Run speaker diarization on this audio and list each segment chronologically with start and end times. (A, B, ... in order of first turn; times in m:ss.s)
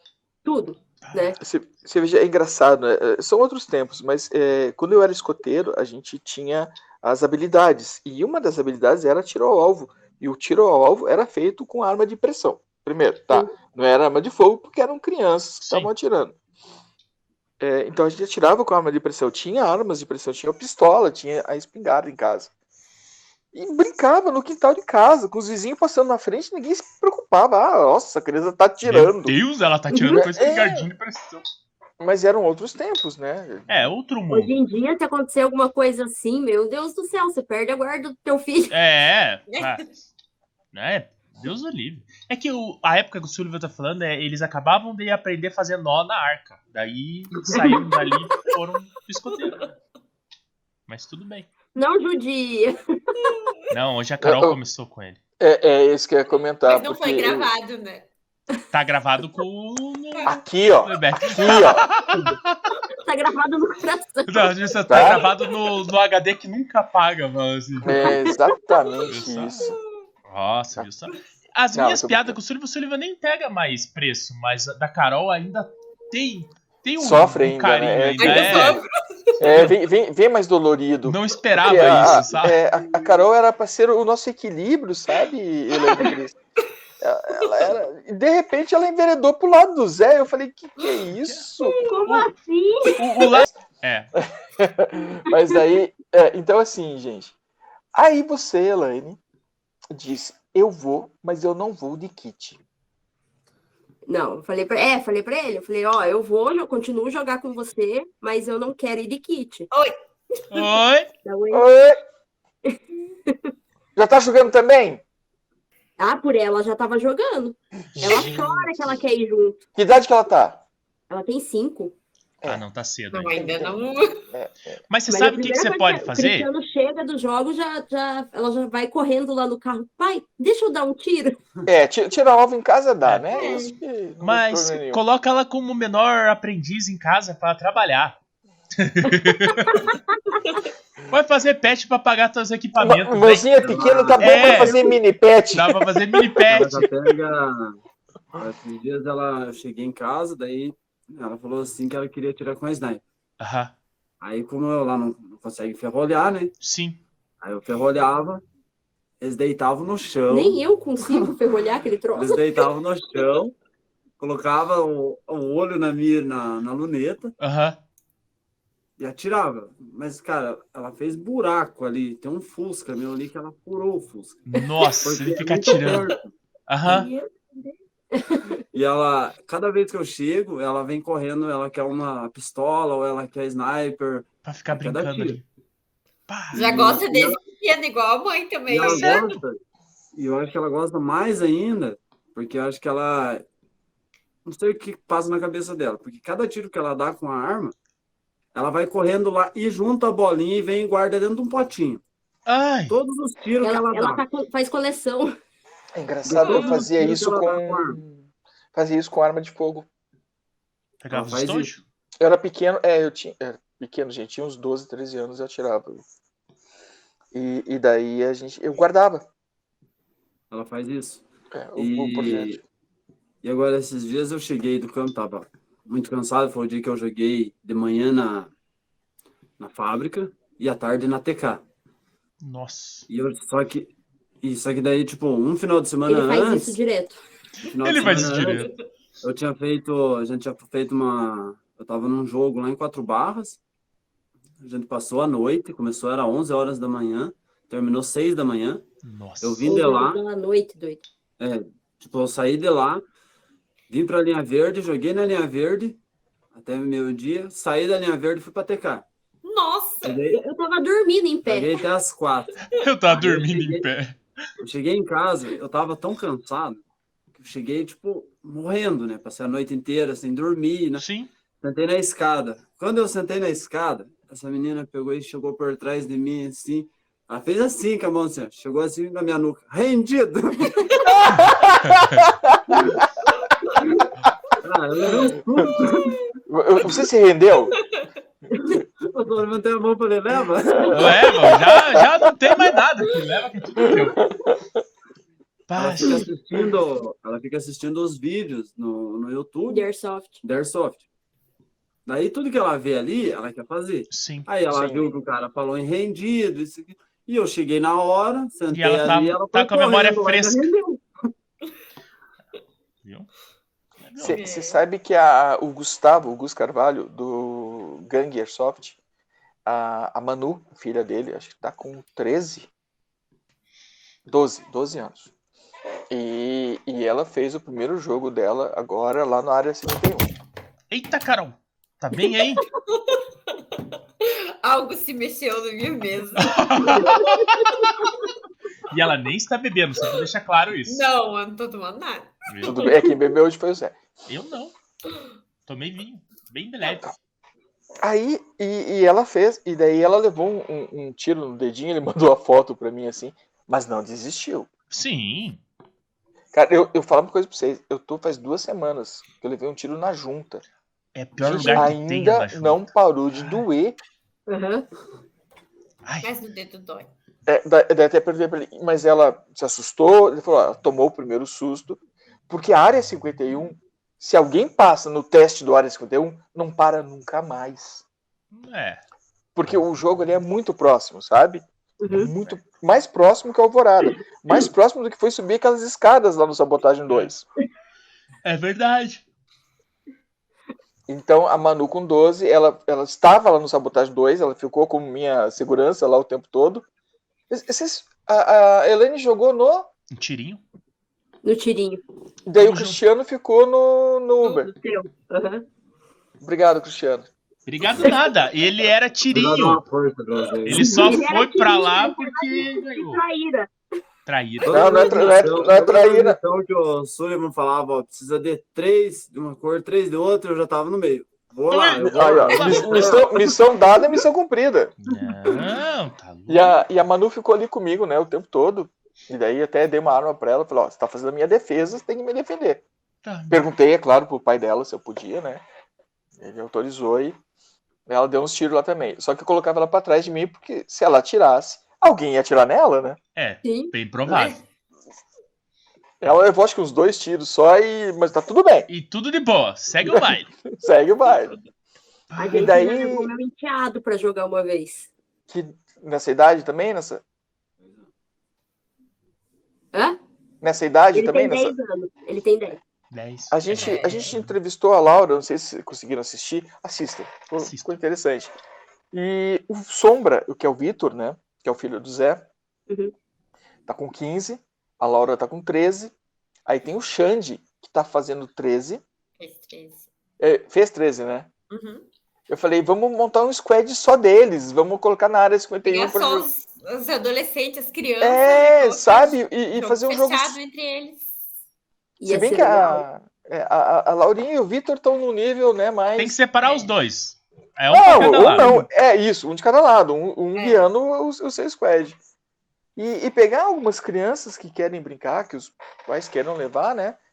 0:00.4-0:01.4 A
0:01.0-0:01.3 B
0:01.4-0:16.3 C
0:15.6-0:15.9 B
0:17.6-0:22.5 C
0:23.5-0:29.4 C
0:28.8-0:31.4 B
0:29.9-0:30.2 A
0:30.1-0:30.9 C
0:32.0-0:33.9 C
0:33.7-0:34.5 B
0:34.3-0:38.7 A
0:38.7-0:39.9 B
0:39.5-0:39.9 D
0:40.7-0:49.7 B
0:47.5-0:47.8 A
0:50.9-0:51.5 B
0:51.7-0:53.3 A
0:53.7-0:55.2 B
0:54.2-0:54.6 C
0:55.4-0:57.5 C
0:56.6-0:58.1 D
0:58.7-1:02.6 B
1:00.2-1:01.8 C
1:03.0-1:04.6 A
1:04.3-1:08.1 B
1:04.9-1:05.2 C
1:07.8-1:09.8 C
1:08.0-1:08.4 A
1:09.1-1:09.7 B
1:10.3-1:18.8 B
1:11.7-1:12.4 C
1:17.0-1:18.8 C
1:18.2-1:19.4 D
1:19.4-1:26.3 C
1:19.4-1:19.8 B
1:21.0-1:22.6 B
1:25.8-1:26.1 D
1:27.0-1:31.8 C
1:31.6-1:33.0 A
1:33.0-1:34.1 B
1:34.2-1:37.3 C
1:37.9-1:39.2 C
1:39.9-1:42.6 C
1:44.0-1:49.7 A
1:50.5-1:51.1 B
1:51.2-1:51.6 A
1:51.5-1:52.0 C
1:54.0-1:55.0 C
1:56.0-1:59.6 A
1:57.9-1:59.0 C
1:59.8-2:00.6 C
2:01.1-2:01.9 A
2:02.4-2:03.5 B
2:03.1-2:04.2 D
2:03.4-2:03.8 C
2:04.3-2:04.8 C
2:04.9-2:06.5 B
2:05.1-2:11.4 A
2:11.6-2:15.0 C
2:13.0-2:13.3 B
2:13.3-2:13.7 D
2:14.2-2:18.2 B
2:18.8-2:19.8 B
2:19.6-2:20.4 A
2:21.1-2:23.7 B
2:22.8-2:25.8 C
2:23.6-2:24.2 E
2:24.2-2:24.8 B
2:24.2-2:24.9 A
2:25.5-2:26.9 B
2:26.5-2:27.8 E
2:28.3-2:33.0 E
2:33.4-2:33.7 B
2:34.2-2:36.5 E
2:36.6-2:37.0 B
2:37.4-2:38.4 E
2:39.2-2:41.3 E
2:40.3-2:42.4 A
2:42.1-2:43.5 E
2:44.2-2:47.3 E
2:47.4-2:47.8 B
2:49.0-2:54.4 E
2:54.5-2:56.1 B
2:55.0-2:56.3 E
2:56.7-2:57.1 B
2:56.8-2:57.3 A
2:58.1-2:58.6 A
2:58.7-3:05.4 E
3:04.4-3:05.4 B
3:06.3-3:06.7 B
3:06.5-3:07.4 E
3:06.5-3:09.3 D
3:08.7-3:09.6 E
3:09.0-3:09.2 B
3:10.1-3:13.4 E
3:14.4-3:17.7 E
3:18.5-3:22.0 E
3:22.4-3:23.0 B
3:22.9-3:24.2 E
3:23.6-3:25.3 A
3:25.9-3:29.9 C
3:26.2-3:28.0 E
3:26.4-3:26.7 D
3:31.0-3:31.8 B
3:31.1-3:31.8 E
3:32.2-3:36.0 C
3:37.3-3:39.2 C
3:40.5-3:41.2 E
3:41.5-3:42.6 C
3:41.8-3:42.6 E
3:43.4-3:48.5 E
3:49.6-3:51.6 E
3:52.4-3:53.0 B
3:53.1-3:53.9 E
3:54.4-3:56.8 E
3:56.1-3:57.2 A
3:57.6-3:58.7 E
3:57.8-3:58.7 B
3:59.2-4:03.6 E
4:04.6-4:08.8 E
4:09.0-4:09.6 B
4:09.4-4:10.2 E
4:09.6-4:11.0 A
4:11.4-4:13.0 E
4:13.9-4:16.0 E
4:16.5-4:19.0 E
4:19.4-4:20.2 D
4:20.0-4:20.4 E
4:20.3-4:21.7 A
4:21.4-4:23.9 E
4:22.7-4:24.2 B
4:24.6-4:26.8 E
4:27.4-4:31.0 E
4:31.0-4:31.3 B
4:31.6-4:41.0 E
4:41.0-4:43.1 C
4:41.9-4:42.2 B
4:44.6-4:46.1 E
4:46.5-4:47.7 C
4:47.8-4:48.1 D
4:49.1-4:51.2 E
4:50.8-4:52.1 C
4:50.9-4:54.2 B
4:53.8-4:54.6 C
4:55.7-4:56.3 B
4:55.8-4:59.9 E
4:59.7-5:00.4 A
5:00.4-5:01.0 E
5:02.0-5:11.0 E
5:04.1-5:04.5 B
5:04.7-5:05.1 C
5:08.7-5:10.6 B
5:13.0-5:13.3 B
5:14.0-5:14.4 B
5:14.2-5:19.0 C
5:14.2-5:14.8 D
5:19.6-5:22.7 C
5:24.3-5:25.3 C
5:26.1-5:30.3 C
5:30.9-5:32.6 B
5:32.9-5:33.6 D
5:34.2-5:37.2 D
5:36.4-5:37.6 B
5:37.0-5:37.4 A
5:38.9-5:41.1 B
5:40.9-5:43.0 D
5:42.5-5:42.9 B
5:42.6-5:44.0 C
5:44.3-5:44.7 B
5:45.7-5:47.1 B
5:48.0-5:54.7 C
5:54.9-5:55.6 B
5:56.5-6:00.6 C
6:01.1-6:03.6 B
6:01.4-6:04.0 C
6:04.5-6:04.8 A
6:06.0-6:06.3 B
6:06.2-6:07.1 D
6:07.4-6:12.0 C
6:12.5-6:18.0 C
6:18.5-6:19.0 B
6:19.5-6:27.4 C
6:22.0-6:22.3 A
6:28.4-6:29.2 B
6:31.1-6:36.8 C
6:37.5-6:39.9 C
6:40.1-6:40.6 B
6:41.4-6:42.0 A
6:42.4-6:44.7 C
6:42.6-6:43.0 B
6:44.4-6:45.6 A
6:46.4-6:47.3 C
6:47.7-6:49.8 B
6:49.3-6:51.2 E
6:50.6-6:53.2 B
6:50.7-6:53.7 A
6:54.2-6:55.1 B
6:54.6-7:03.6 E
6:54.7-6:56.4 C
7:01.7-7:03.2 B
7:02.0-7:04.9 C
7:05.0-7:06.7 B
7:06.5-7:12.8 C
7:13.2-7:13.6 B
7:13.5-7:15.6 C
7:16.4-7:17.4 C
7:18.1-7:23.2 C
7:23.4-7:24.6 B
7:23.6-7:23.9 A
7:26.2-7:28.9 C
7:28.9-7:30.5 B
7:30.0-7:31.5 C
7:32.3-7:32.7 B
7:32.4-7:35.1 A
7:32.5-7:33.3 C
7:35.5-7:37.2 C
7:39.9-7:40.2 A
7:40.6-7:41.7 C
7:41.1-7:42.8 A
7:43.1-7:44.5 B
7:43.5-7:48.5 C
7:43.7-7:44.3 D
7:47.6-7:47.9 B
7:49.1-7:52.4 C
7:52.9-7:53.1 A
7:53.9-7:56.1 C
7:56.6-7:59.0 C
7:59.4-8:00.1 D
8:00.4-8:01.5 C
8:01.7-8:02.0 D
8:02.5-8:06.5 C
8:05.8-8:11.3 D
8:08.2-8:10.6 C
8:12.2-8:13.0 A
8:12.2-8:16.4 C
8:16.2-8:18.9 B
8:16.6-8:16.9 D
8:17.9-8:22.2 C
8:20.5-8:20.8 D
8:23.0-8:27.2 C